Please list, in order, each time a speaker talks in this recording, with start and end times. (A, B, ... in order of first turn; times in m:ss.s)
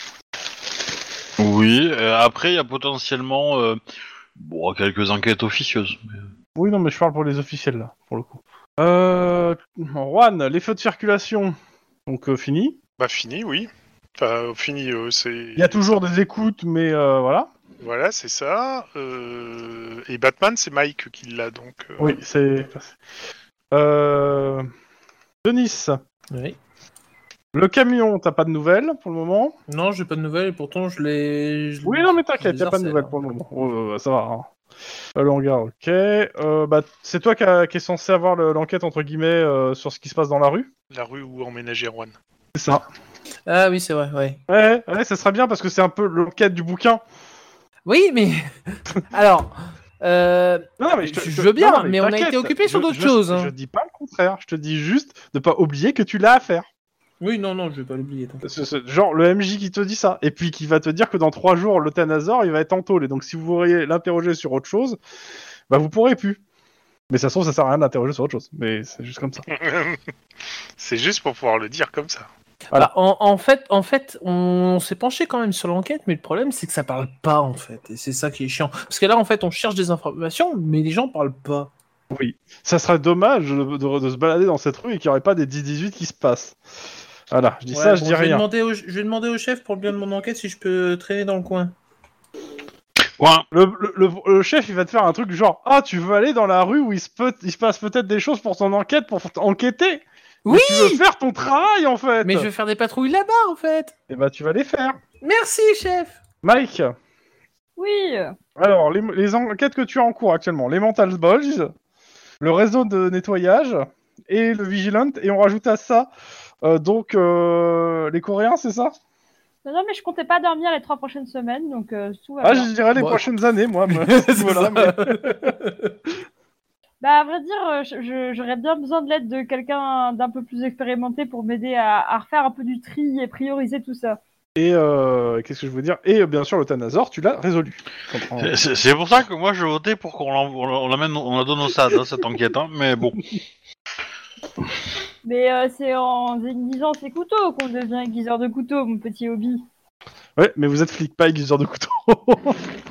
0:01.4-0:03.8 A
0:04.4-0:06.2 A
0:06.5-0:11.5 B
0:12.1-0:12.8 B
0:13.0-0:15.9 C
0:15.6-0:17.5 B
0:17.8-0:22.2 C
0:22.0-0:23.0 B
0:23.7-0:24.7 B
0:25.4-0:26.0 B
0:26.3-0:26.6 D
0:27.5-0:29.5 B
0:29.7-0:33.2 D
0:31.8-0:34.5 B
0:35.1-0:40.7 B
0:40.9-0:42.1 C
0:42.5-0:42.8 B
0:43.4-0:44.4 D
0:44.5-0:47.0 B
0:47.8-0:53.5 D
0:50.8-0:56.6 B
0:57.2-0:58.4 D
0:58.4-1:05.0 B
1:05.7-1:06.4 B
1:07.1-1:09.4 B
1:09.5-1:10.0 C
1:10.8-1:12.3 C
1:12.7-1:21.7 D
1:22.1-1:26.6 B
1:27.3-1:28.4 B
1:27.7-1:31.7 D
1:33.2-1:33.4 A
1:33.5-1:42.5 B
1:40.4-1:41.0 D
1:42.2-1:43.9 D
1:44.1-1:45.0 B
1:45.2-1:46.2 D
1:46.4-1:46.9 B
1:47.8-1:48.4 E
1:48.6-1:51.7 B
1:52.4-1:56.1 B
1:56.6-1:58.9 B
1:59.6-2:02.7 E
2:02.4-2:05.5 B
2:03.0-2:03.2 D
2:03.9-2:05.9 D
2:07.0-2:14.2 E
2:14.6-2:18.5 B
2:18.4-2:23.4 A
2:25.2-2:29.6 E
2:30.4-2:32.7 B